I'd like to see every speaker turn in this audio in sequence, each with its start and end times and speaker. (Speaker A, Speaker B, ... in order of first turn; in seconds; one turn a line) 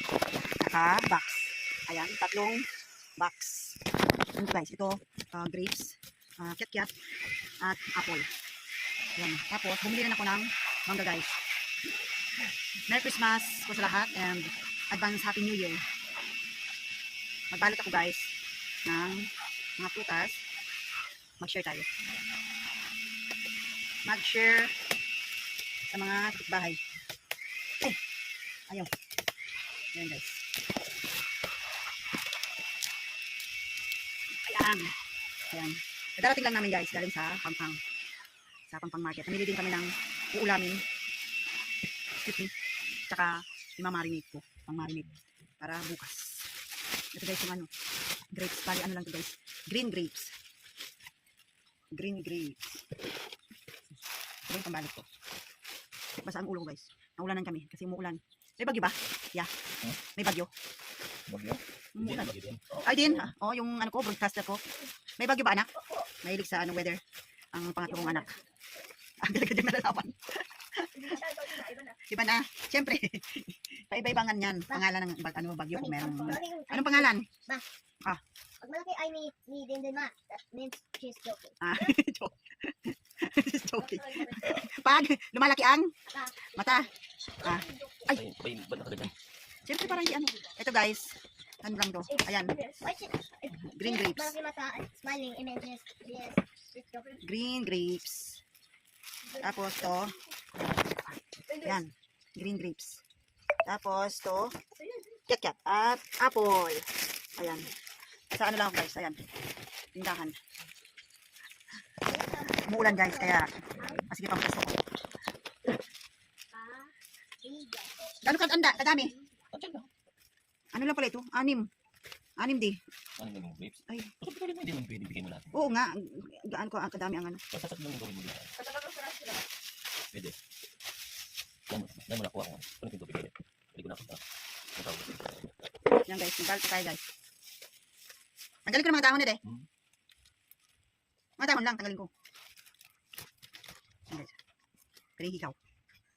Speaker A: 0.6-3.8
Speaker A: 4.3-6.9
Speaker A: 7.6-8.3
Speaker A: 9.2-11.3
Speaker A: 12.8-15.8
Speaker A: 17.5-18.3
Speaker A: 18.9-20.4
Speaker A: 21.4-21.9
Speaker A: 24.0-24.8
Speaker A: 25.9-26.8
Speaker A: 29.9-30.4
Speaker A: 34.4-35.0
Speaker A: 35.5-37.8
Speaker A: 38.7-40.8
Speaker A: 42.2-42.5
Speaker A: 43.1-46.5
Speaker A: 47.1-47.7
Speaker A: 48.3-50.3
Speaker A: 51.9-52.9
Speaker A: 54.5-55.1
Speaker A: 56.2-59.5
Speaker A: 60.1-60.5
Speaker B: 61.3-63.3
Speaker A: 61.9-64.6
Speaker A: 65.2-67.0
Speaker A: 67.5-68.4
Speaker A: 69.2-77.3
Speaker C: 75.7-77.6
Speaker C: 78.6-81.8
Speaker A: 81.6-85.9
Speaker C: 86.1-86.9
Speaker A: 86.5-88.2
Speaker C: 87.5-88.0
Speaker B: 88.0-89.1
Speaker A: 89.7-92.6
Speaker C: 92.2-97.2
Speaker A: 93.5-94.4
Speaker A: 97.2-98.4
Speaker A: 99.3-103.0
Speaker A: 103.6-104.6
Speaker A: 105.3-107.7
Speaker A: 108.3-109.2
Speaker A: 109.9-110.4
Speaker C: 112.0-113.9
Speaker A: 112.5-114.8
Speaker C: 116.5-119.2
Speaker A: 118.2-119.2
Speaker B: 119.5-119.9
Speaker A: 120.7-121.7
Speaker A: 122.4-122.8
Speaker B: 123.2-125.6
Speaker A: 123.9-124.1
Speaker A: 125.5-127.4
Speaker B: 127.5-128.5
Speaker B: 131.7-134.2
Speaker B: 134.7-135.4
Speaker A: 136.1-137.0
Speaker A: 138.7-139.4
Speaker A: 141.4-142.1
Speaker A: 144.1-144.4
Speaker A: 145.2-145.6